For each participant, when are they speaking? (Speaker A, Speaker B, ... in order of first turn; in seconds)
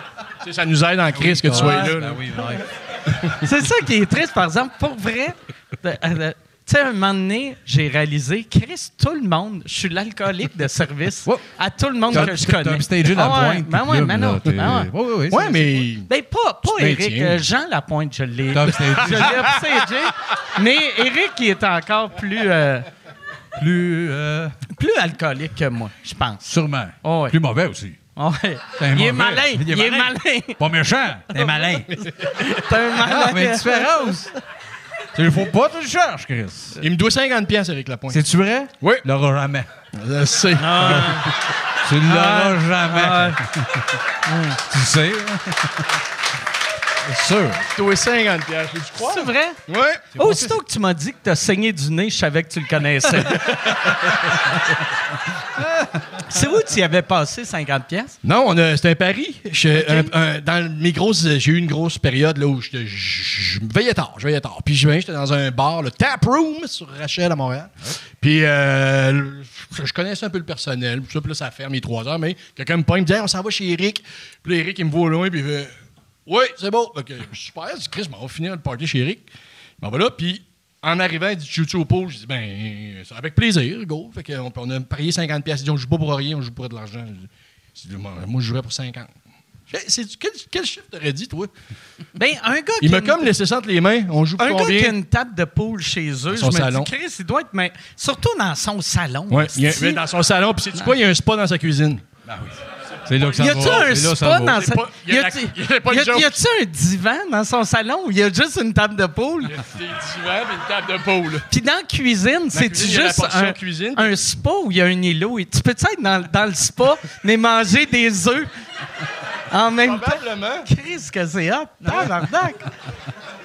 Speaker A: 0.4-2.2, 3.1-3.4, 15.3-16.1, 16.6-17.4, 19.1-19.6, 36.8-38.2, 39.9-41.3, 47.5-50.1, 53.3-54.1, 58.2-75.7, 76.2-79.3, 79.8-89.1, 89.7-91.5, 92.8-95.0, 96.3-96.9, 99.3-102.0, 103.0-106.4, 109.5-111.5, 112.5-114.1, 119.8-120.7
Speaker B: 1.1-2.7, 12.1-15.8, 18.5-19.6, 23.6-24.6, 26.4-28.0, 28.8-32.0, 33.0-34.3, 35.1-36.8, 38.1-39.7, 41.8-44.0, 44.6-45.9, 47.0-47.6, 50.1-50.5, 55.6-56.0, 102.2-104.7, 121.8-122.2
Speaker C: 1.5-2.0, 3.4-14.9, 16.1-22.9, 24.7-26.5, 27.0-27.4, 28.1-30.6, 31.3-34.3, 40.5-41.3, 42.1-43.4, 44.2-44.6, 49.0-49.6, 50.1-53.5, 56.2-58.2, 59.7-60.1, 92.2-93.3, 94.4-100.0, 103.4-109.6, 111.5-118.5, 119.5-122.7